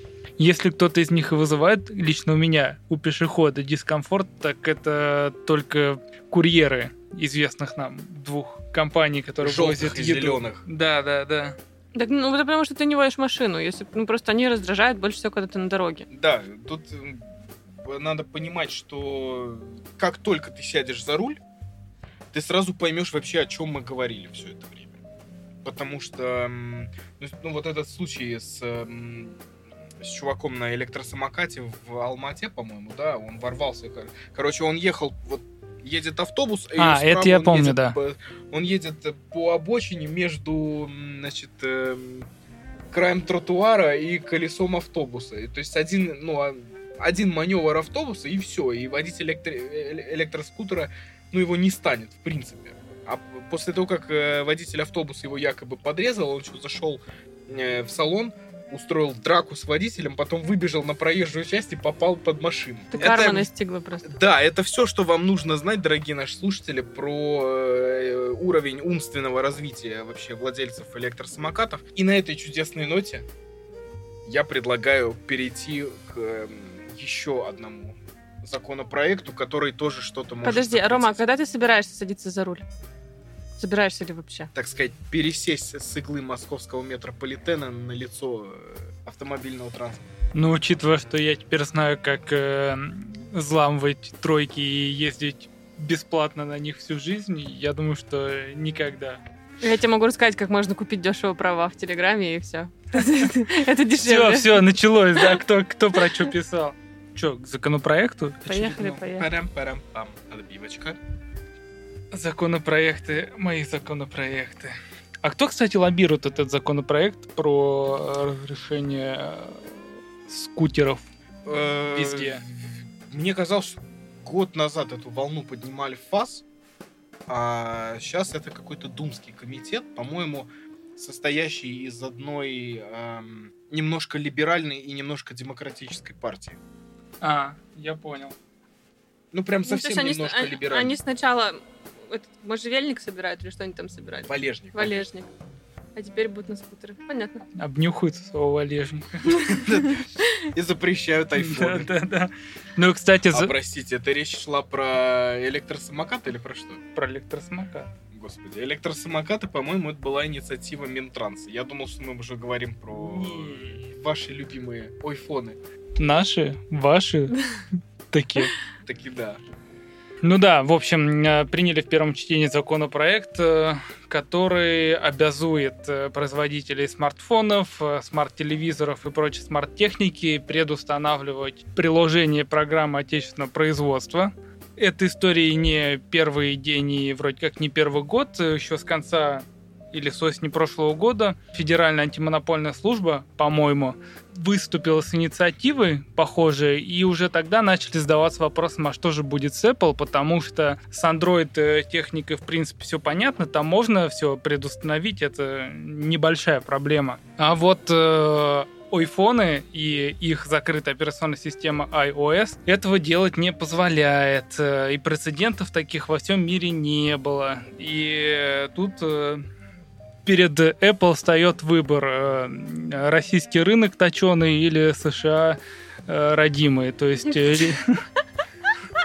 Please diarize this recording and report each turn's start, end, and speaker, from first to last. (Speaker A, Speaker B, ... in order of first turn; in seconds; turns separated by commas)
Speaker A: 0.4-11.6, Speaker B: 9.4-10.6, Speaker C: 11.9-16.1, Speaker B: 16.1-21.4, Speaker B: 22.3-24.9, Speaker B: 25.6-29.4, Speaker B: 30.0-42.3, Speaker A: 36.8-38.0, Speaker B: 42.9-63.5, Speaker C: 62.9-64.1, Speaker B: 64.0-73.2, Speaker B: 74.2-81.2, Speaker C: 80.4-82.6, Speaker C: 83.6-84.5, Speaker B: 84.5-90.0, Speaker A: 90.3-99.2, Speaker C: 99.6-104.7, Speaker A: 104.0-109.0, Speaker C: 108.5-109.3, Speaker B: 109.1-111.0, Speaker A: 112.1-121.1, Speaker B: 121.5-126.4, Speaker A: 121.9-122.4, Speaker B: 127.3-136.6, Speaker A: 137.2-138.3, Speaker B: 139.3-141.0, Speaker C: 139.7-145.3, Speaker B: 144.3-145.1, Speaker C: 145.9-147.4, Speaker A: 147.6-149.6, Speaker C: 149.3-150.3, Speaker B: 149.5-151.9, Speaker A: 151.4-153.5, Speaker B: 153.3-156.8, Speaker A: 156.9-157.9, Speaker B: 158.1-165.6, Speaker A: 162.9-163.9, Speaker A: 166.0-167.4, Speaker A: 168.1-168.5, Speaker B: 168.8-169.4, Speaker A: 170.2-219.4, Speaker A: 220.2-228.0